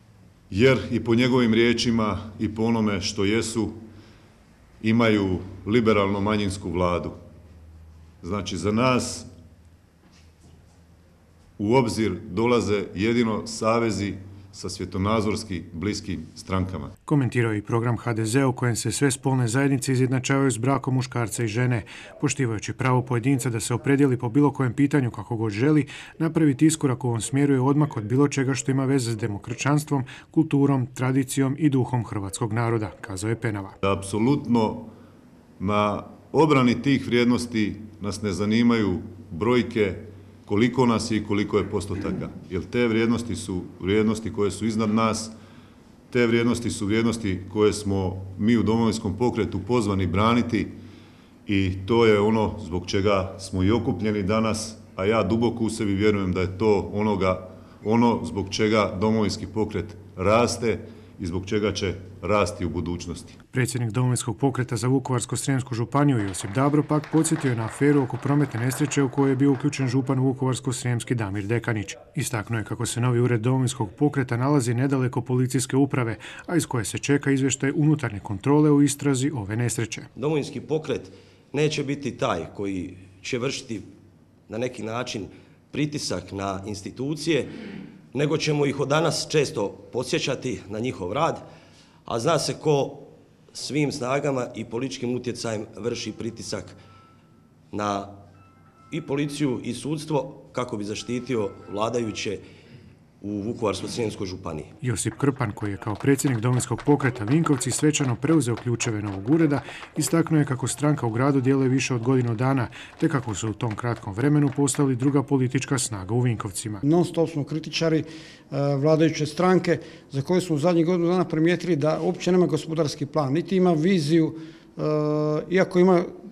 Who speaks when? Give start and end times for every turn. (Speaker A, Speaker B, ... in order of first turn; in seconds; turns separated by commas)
Speaker A: 0.5-3.8, Speaker A: 4.8-7.2, Speaker A: 8.2-9.3, Speaker A: 11.6-16.9, Speaker B: 17.1-33.8, Speaker A: 33.8-34.9, Speaker A: 35.6-45.3, Speaker A: 46.1-50.8, Speaker A: 51.5-63.4, Speaker B: 63.5-80.1, Speaker C: 80.2-83.9, Speaker C: 84.5-87.5, Speaker C: 88.1-91.5, Speaker C: 92.0-96.8, Speaker C: 97.7-98.1, Speaker C: 98.9-102.4, Speaker C: 103.2-104.7, Speaker B: 104.8-116.8, Speaker D: 116.8-126.1